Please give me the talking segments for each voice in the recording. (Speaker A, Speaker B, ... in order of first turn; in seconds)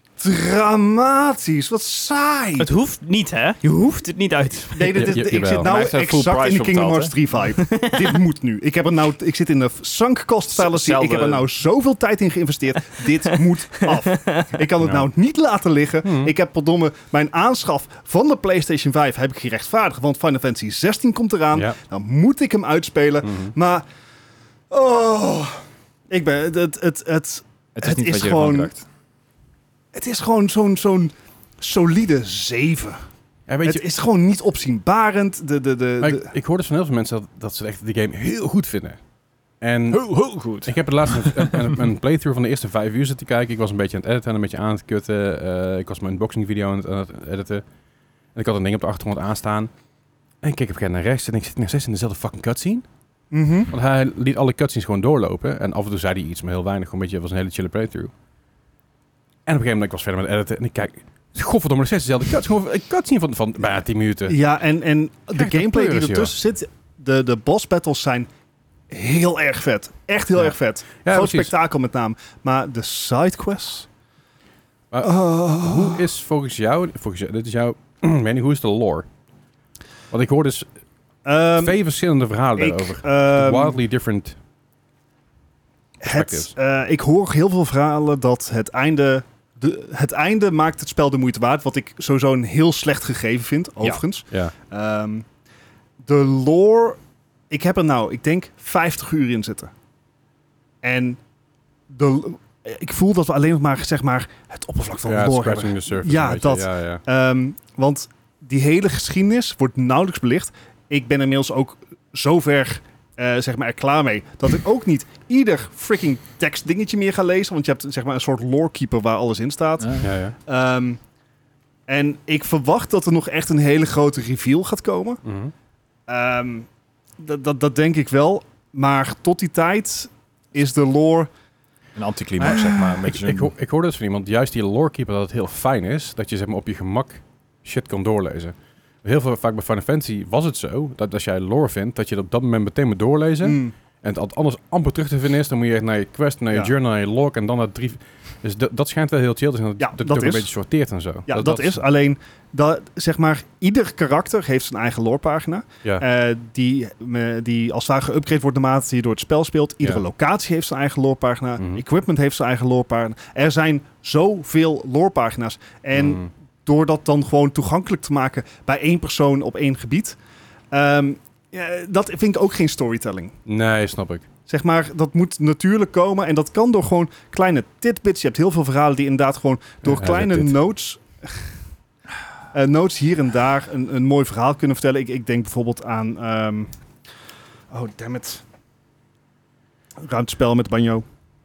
Speaker A: 0.2-2.7, 4.7-23.8, 24.7-28.7, 29.9-33.0, 33.6-36.3, 53.3-53.7, 64.3-68.3, 68.9-73.9, 75.0-76.1, 81.2-81.8, 82.6-83.8, 86.0-95.3, 96.0-97.0, 97.5-99.7, 100.8-101.2, 101.9-121.0, 121.9-125.2, 126.1-126.7, 127.2-131.3, 132.4-133.0, 143.4-143.7, 149.8-150.5, 151.3-170.2, 170.7-173.3, 174.5-181.5, 182.5-186.7, 187.7-188.4, 190.0-191.1
Speaker B: 2.6-5.1, 7.6-8.2, 13.8-14.6
Speaker C: 4.9-5.7, 14.8-15.1, 16.0-16.3, 23.2-23.5, 33.5-33.9, 36.0-39.0, 39.6-47.6, 48.4-49.7, 50.4-52.9, 53.7-58.1, 59.5-64.4, 65.3-66.3, 71.0-71.5, 74.9-79.1, 80.1-80.7, 81.6-84.4, 86.0-86.5, 105.0-107.0, 120.0-120.3, 125.2-125.5, 133.1-151.8, 161.6-161.8, 165.9-166.3, 173.5-174.3, 179.8-180.6
Speaker D: 5.6-7.1, 10.5-11.5, 27.8-28.8, 39.9-41.7, 119.8-120.1, 132.0-133.5